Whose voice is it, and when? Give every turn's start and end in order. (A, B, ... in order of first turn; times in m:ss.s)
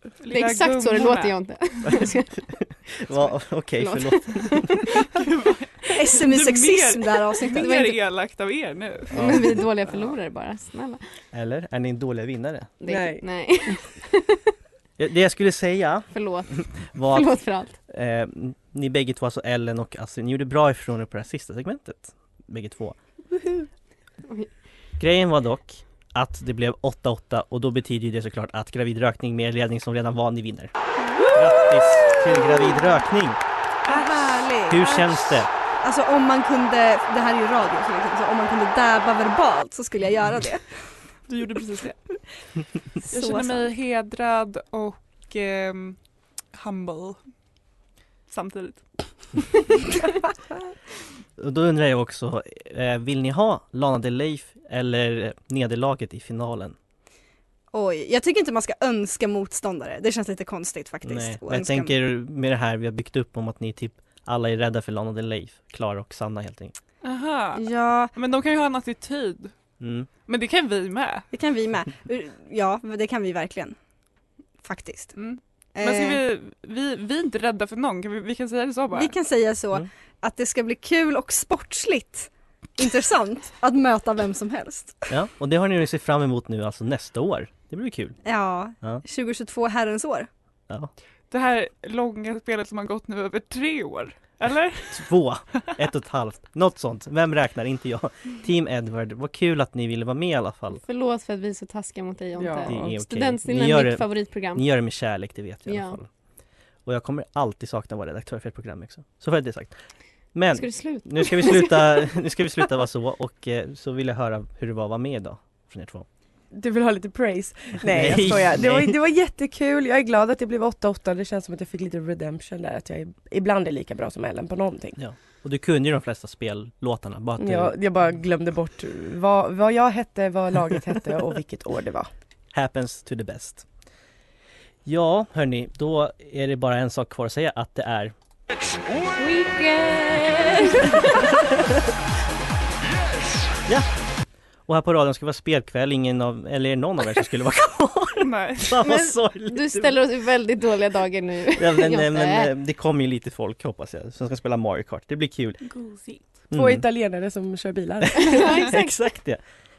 0:00.2-0:01.4 A
0:00.3-0:02.4 B
0:01.9-0:04.8 C
0:03.8-0:04.9 B
0:05.1-0:09.2 A
0:05.9-0:08.0 D
0:09.1-0:09.7 C
0:09.1-0:11.0 B
0:11.3-0:12.8 C
0:12.8-0:14.4 B
0:12.9-0:13.2 E
0:15.0-0:23.0 C
0:16.1-0:17.8 B
0:25.0-0:30.7 C
0:31.0-0:31.5 D
0:31.3-0:33.4 C
0:33.9-0:40.8 D
0:34.7-0:35.5 C
0:41.3-0:42.1 A
0:43.0-0:43.7 D
0:43.1-0:46.0 A
0:46.5-0:47.2 A
0:48.3-0:48.9 A
0:51.4-0:56.8 C
0:57.7-1:01.9 D
1:01.0-1:06.8 C
1:07.0-1:09.5 A
1:07.6-1:08.1 D
1:09.8-1:10.1 C
1:10.3-1:11.3 A
1:11.3-1:13.8 D
1:14.6-1:15.2 D
1:15.2-1:19.1 A
1:15.8-1:16.2 D
1:18.9-1:25.0 D
1:25.1-1:28.2 C
1:28.2-1:30.3 D
1:31.3-1:35.1 A
1:34.9-1:40.8 C
1:40.7-1:44.6 B
1:42.4-1:43.0 E
1:42.7-1:46.1 C
1:45.7-1:46.0 B
1:46.9-1:49.8 C
1:50.3-1:56.1 C
1:50.5-1:52.1 B
1:56.5-2:05.0 E
1:57.9-1:59.0 C
2:05.0-2:07.8 C
2:07.4-2:12.1 E
2:12.5-2:13.7 C
2:14.8-2:18.1 C
2:19.2-2:21.3 B
2:24.7-2:30.0 C
2:28.2-2:28.7 A
2:28.8-2:32.5 B
2:31.6-2:35.6 C
2:35.6-2:36.2 A
2:36.5-2:36.9 C
2:36.5-2:38.7 E
2:38.0-2:39.4 C
2:38.2-2:39.0 B